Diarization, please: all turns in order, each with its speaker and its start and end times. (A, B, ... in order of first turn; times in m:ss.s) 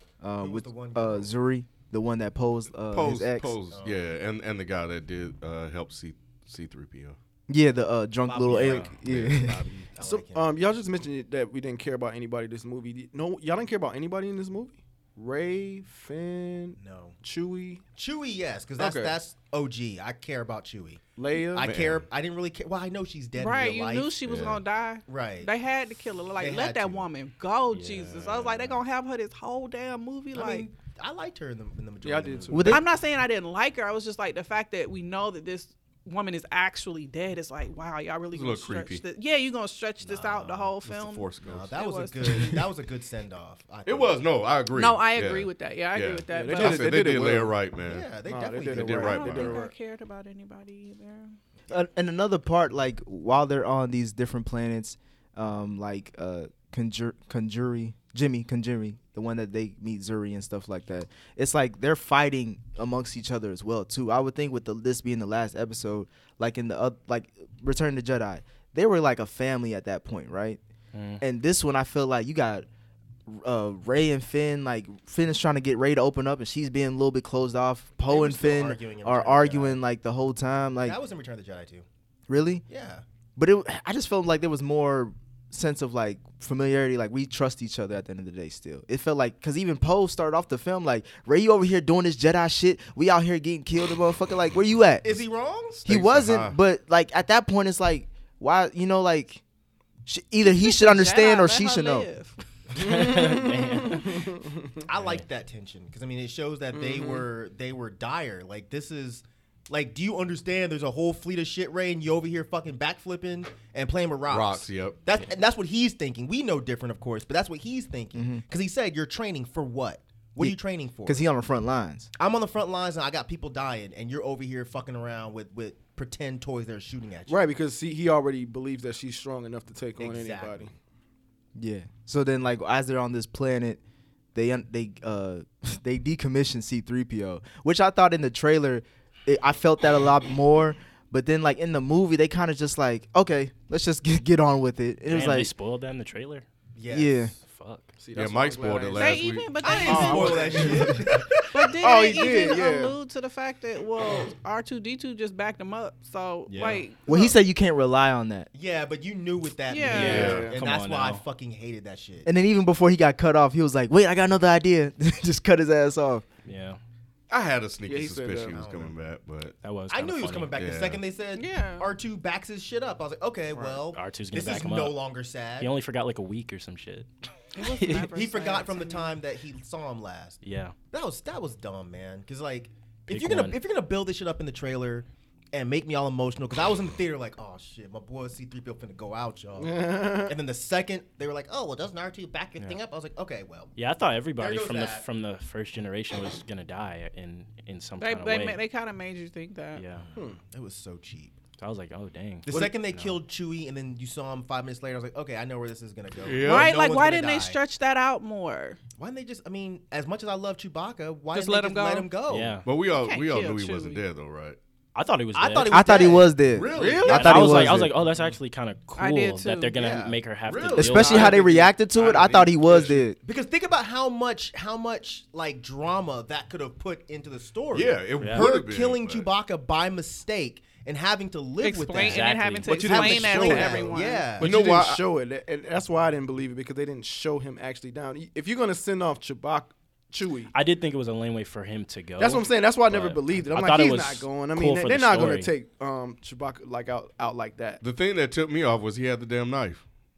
0:00.2-0:03.5 A
0:00.4-0:01.3 B
0:02.9-0:07.2 C
0:03.7-0:04.0 B
0:07.5-0:09.6 A
0:08.2-0:10.5 B
0:08.6-0:08.9 D
0:09.1-0:09.4 C
0:10.0-0:17.8 E
0:16.8-0:17.2 B
0:18.0-0:21.0 B
0:18.8-0:19.2 E
0:21.2-0:21.7 E
0:21.5-0:24.2 B
0:21.6-0:22.1 C
0:23.4-0:30.7 F
0:24.2-0:24.6 C
0:25.1-0:25.5 B
0:26.4-0:27.1 B
0:27.7-0:28.8 D
0:30.3-0:32.8 B
0:32.0-0:32.8 E
0:32.5-0:32.8 A
0:32.7-0:42.7 F
0:38.3-0:39.0 C
0:40.0-0:40.8 B
0:40.8-0:41.8 C
0:41.4-0:44.2 B
0:43.9-0:48.1 C
0:44.7-0:47.0 F
0:46.3-0:47.6 E
0:47.8-0:49.6 B
0:48.3-0:49.7 E
0:48.7-0:49.6 C
0:49.0-0:51.4 F
0:51.7-1:10.6 A
1:10.9-1:11.2 D
1:11.2-1:12.7 A
1:13.3-1:21.0 A
1:18.0-1:19.8 B
1:20.8-1:21.9 B
1:22.3-1:22.6 A
1:22.7-1:23.0 B
1:23.4-1:35.2 A
1:35.0-1:35.9 B
1:35.9-1:36.6 C
1:35.9-1:39.4 A
1:40.1-1:42.1 A
1:40.4-1:42.4 F
1:42.8-1:44.2 D
1:42.8-1:44.8 E
1:44.9-2:01.3 B
1:45.0-1:45.2 D
1:46.7-1:47.3 E
1:54.3-1:55.0 C
1:58.1-1:58.4 A
2:00.4-2:02.1 A
2:02.2-2:07.4 B
2:07.3-2:10.7 E
2:10.0-2:10.7 B
2:11.6-2:13.8 A
2:14.4-2:25.5 A
2:25.1-2:26.5 D
2:26.8-2:27.4 B
2:26.9-2:27.3 A
2:27.4-2:27.9 D
2:28.0-2:29.3 E
2:28.2-2:29.6 C
2:29.0-2:30.7 F
2:29.6-2:31.3 B
2:29.8-2:33.0 E
2:30.5-2:31.0 A
2:31.5-2:37.4 F
2:36.5-2:36.8 D
2:37.1-2:38.5 A
2:38.5-2:42.3 B
2:39.7-2:40.3 F
2:39.9-2:41.2 D
2:40.0-2:40.5 C
2:40.0-2:40.6 E
2:42.2-2:46.2 A
2:46.5-2:46.8 D
2:47.3-2:49.6 C
2:47.9-2:48.6 E
2:48.5-2:49.0 B
2:49.6-2:50.6 D
2:49.9-2:55.7 B
2:50.5-2:51.0 C
2:51.4-2:51.9 F
2:53.9-2:55.0 D
2:55.6-2:57.1 D
2:57.5-2:59.2 F
2:57.7-2:58.1 D
2:58.1-3:00.4 B
3:00.4-3:00.8 D
3:00.9-3:13.8 B
3:03.1-3:03.6 D
3:09.6-3:10.4 E
3:13.8-3:18.6 D
3:14.4-3:15.0 B
3:18.0-3:19.8 F
3:19.8-3:20.1 D
3:20.0-3:21.3 B
3:21.6-3:23.2 D
3:22.5-3:27.6 B
3:26.2-3:26.7 C
3:26.4-3:28.8 F
3:29.0-3:32.6 B
3:31.3-3:32.1 F
3:32.3-3:32.7 D
3:32.6-3:34.6 C
3:32.9-3:34.0 F
3:35.0-3:36.1 D
3:35.3-3:37.7 B
3:35.7-3:37.9 A
3:36.4-3:37.2 C
3:36.8-3:37.6 E
3:37.1-3:41.4 D
3:39.0-3:39.8 F
3:39.8-3:40.2 B
3:40.4-3:43.0 C
3:40.8-3:43.2 A
3:43.2-3:54.5 B
3:47.7-3:49.3 C
3:48.2-3:48.5 D
3:51.6-3:54.4 F
3:51.9-3:53.8 D
3:53.5-4:00.5 E
3:54.4-3:55.0 C
4:00.5-4:05.5 D
4:02.2-4:07.8 E
4:07.8-4:09.8 C